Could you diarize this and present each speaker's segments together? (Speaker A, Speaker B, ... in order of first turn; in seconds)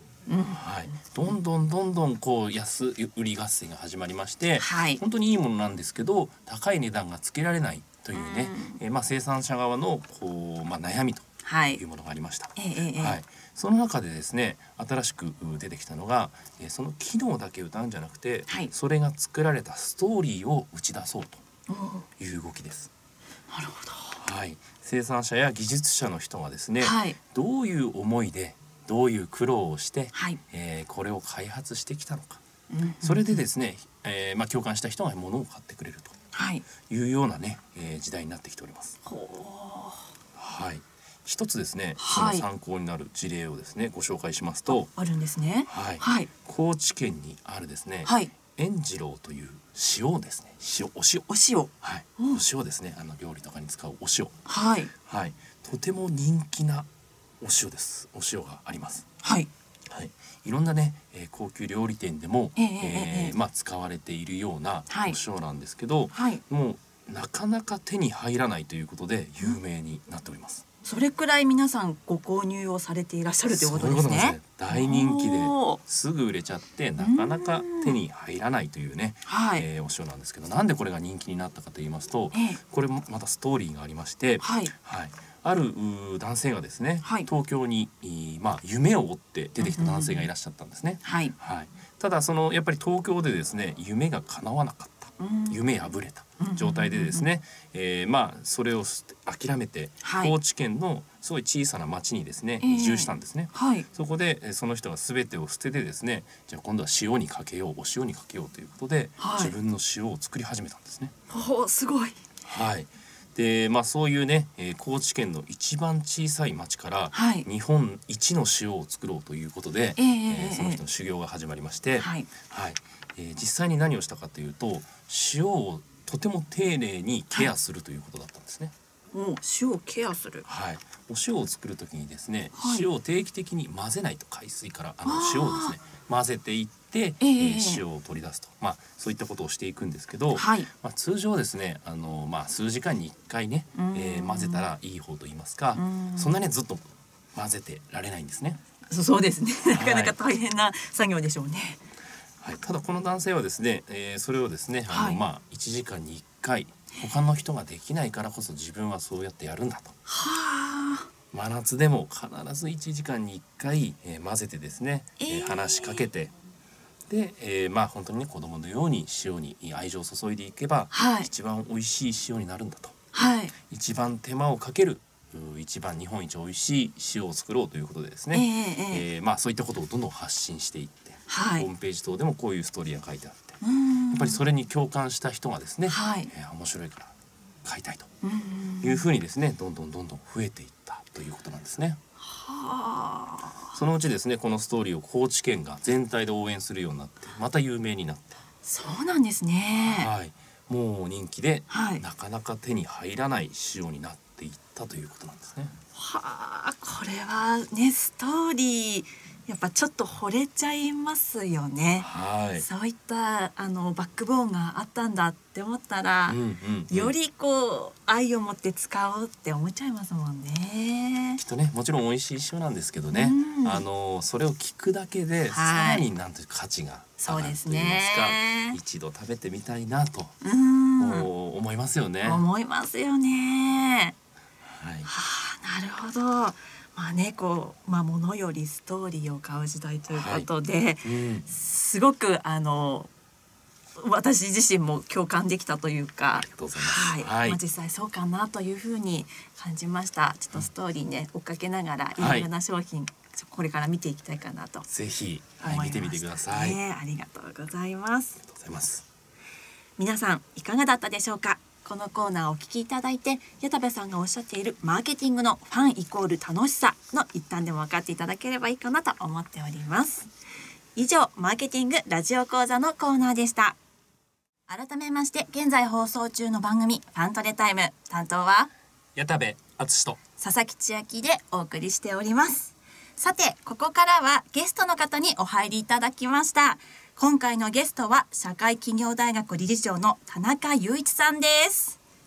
Speaker A: 0.3-0.6, 4.6-5.0, 8.1-8.8, 11.4-11.8, 12.6-13.2, 21.7-22.1, 23.5-24.2, 26.8-27.2, 30.1-30.4, 32.7-33.4, 36.3-36.6, 39.0-40.1, 42.0-42.5, 44.7-46.3, 48.0-48.3, 51.3-52.4, 54.5-54.9, 59.2-59.5, 62.5-63.3, 64.9-65.2, 66.1-66.4, 70.8-75.8, 77.0-78.0, 79.2-79.6, 82.3-82.6, 84.4-84.7, 87.0-87.3, 89.6-90.2, 91.0-91.3, 95.2-95.6, 96.4-97.2, 100.0-100.3, 102.6-103.8, 109.2-109.5, 111.3-112.2, 117.1-117.5, 120.0-120.8, 122.0-122.3, 129.1-130.4, 132.5-132.8, 135.0-135.8, 137.2-137.8, 140.3-140.7, 143.7-144.7, 145.8-146.3, 148.9-151.8, 154.9-155.2, 160.1-161.1, 165.2-166.0, 170.9-171.3, 173.1-173.5, 178.3-179.0, 181.3-181.7, 183.6-184.4, 185.9-186.3, 188.2-189.0, 192.3-193.7, 198.6-200.1, 201.7-202.0, 205.9-221.4, 223.1-223.8, 225.5-226.1, 227.2-228.8, 230.4-231.3, 232.2-234.2, 235.1-243.1, 244.0-254.9, 255.6-258.4, 260.0-270.3, 270.9-273.8, 274.7-278.7, 280.4-292.0
Speaker B: 0.6-21.4, 22.2-22.9, 24.2-32.4, 33.0-36.1, 36.8-39.0, 40.4-44.9, 45.7-51.3, 51.8-54.4, 55.0-56.9, 57.4-59.0, 59.9-70.6, 73.5-111.1, 112.4-128.7, 130.4-148.6, 149.7-150.2, 152.4-159.9, 161.3-166.3, 167.1-172.9, 173.6-187.1, 187.6-188.1, 188.8-192.0, 193.7-198.4, 199.8-205.7, 212.0-212.6, 216.3-217.1, 221.4-230.3, 231.0-232.4, 234.7-235.1, 240.1-240.5, 241.0-241.5, 246.3-247.6, 252.2-252.5, 254.9-256.8, 258.4-259.0, 279.1-280.2